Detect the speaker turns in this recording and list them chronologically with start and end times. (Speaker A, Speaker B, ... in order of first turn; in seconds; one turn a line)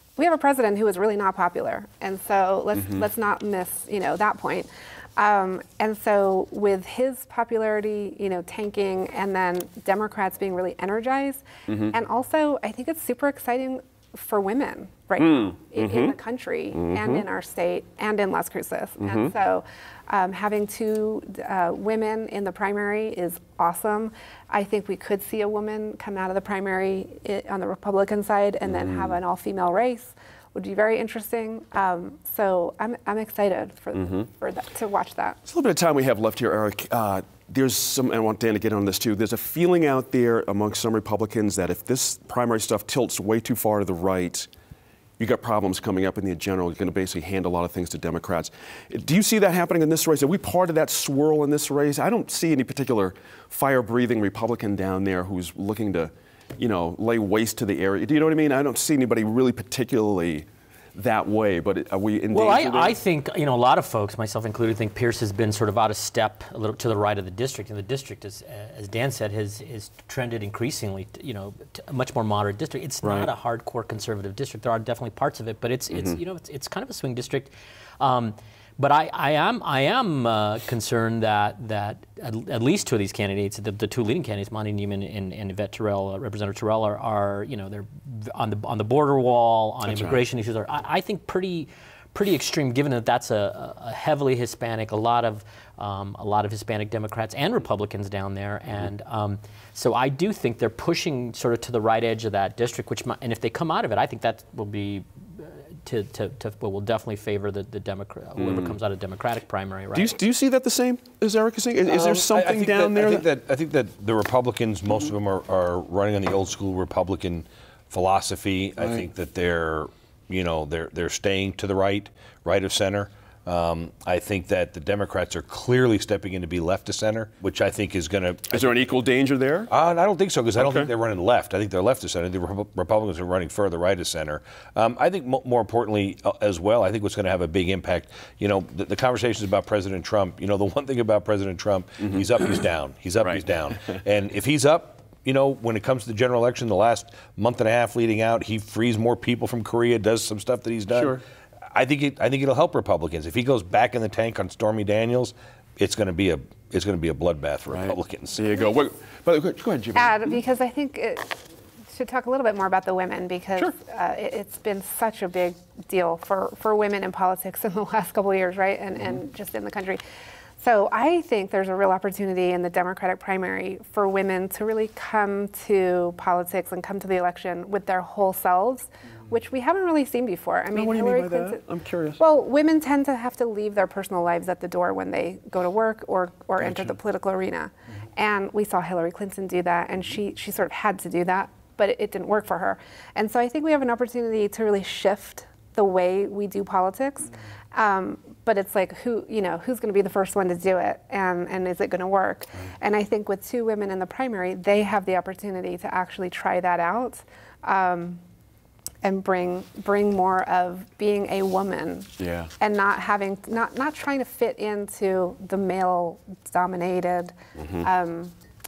Speaker A: 0.2-35.4
Speaker B: 2.8-3.0
Speaker B: 11.7-11.9
Speaker B: 15.2-16.1
Speaker B: 16.7-17.2
Speaker B: 19.0-19.3
Speaker B: 28.6-29.1
Speaker B: 35.5-44.5
Speaker B: 45.2-63.0
Speaker C: 62.3-110.1
Speaker B: 73.0-73.3
Speaker B: 75.9-76.2
Speaker B: 89.8-90.2
Speaker B: 108.4-108.7
Speaker B: 109.9-113.3
Speaker D: 111.8-128.7
Speaker B: 128.5-129.7
Speaker D: 129.7-151.2
Speaker B: 130.6-130.9
Speaker B: 142.0-142.3
Speaker B: 143.2-144.0
Speaker B: 150.9-151.2
Speaker D: 151.7-158.5
Speaker B: 157.7-160.4
Speaker A: 159.9-170.0
Speaker A: 170.6-181.6
Speaker B: 180.7-182.2
Speaker A: 182.2-208.2
Speaker B: 186.6-187.0
Speaker A: 209.0-218.3
Speaker B: 212.2-212.5
Speaker B: 217.6-217.9